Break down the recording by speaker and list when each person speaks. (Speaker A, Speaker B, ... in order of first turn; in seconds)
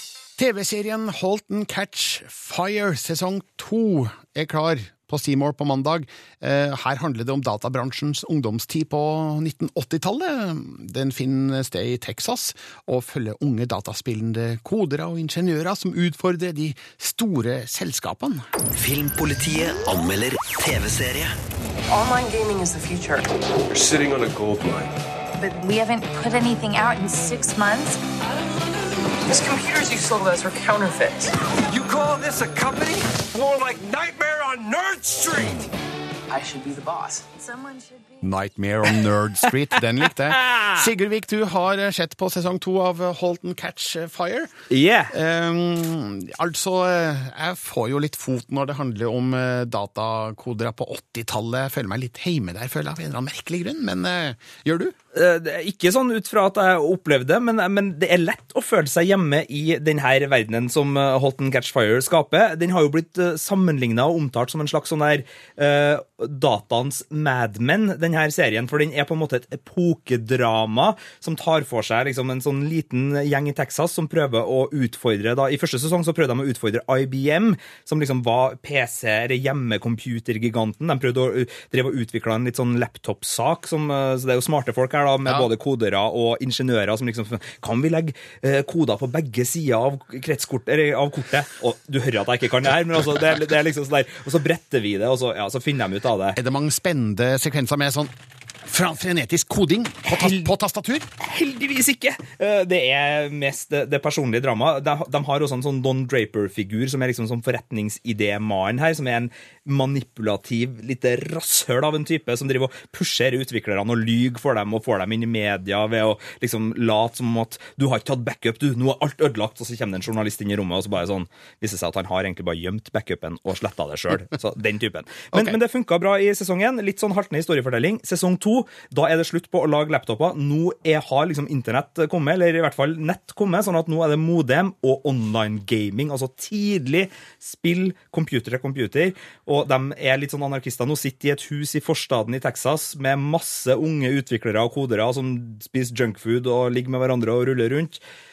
Speaker A: 0.4-18.4, 38.2-44.5, 45.1-54.9, 85.2-85.5, 96.3-98.1, 98.7-101.1
Speaker B: 18.8-21.3
Speaker C: 21.9-23.2, 25.4-28.0, 29.3-31.3, 37.2-38.1
Speaker D: 23.7-24.8, 31.7-35.7
Speaker E: 40.3-40.9, 44.7-45.1, 55.1-96.4, 100.0-100.5, 101.2-148.0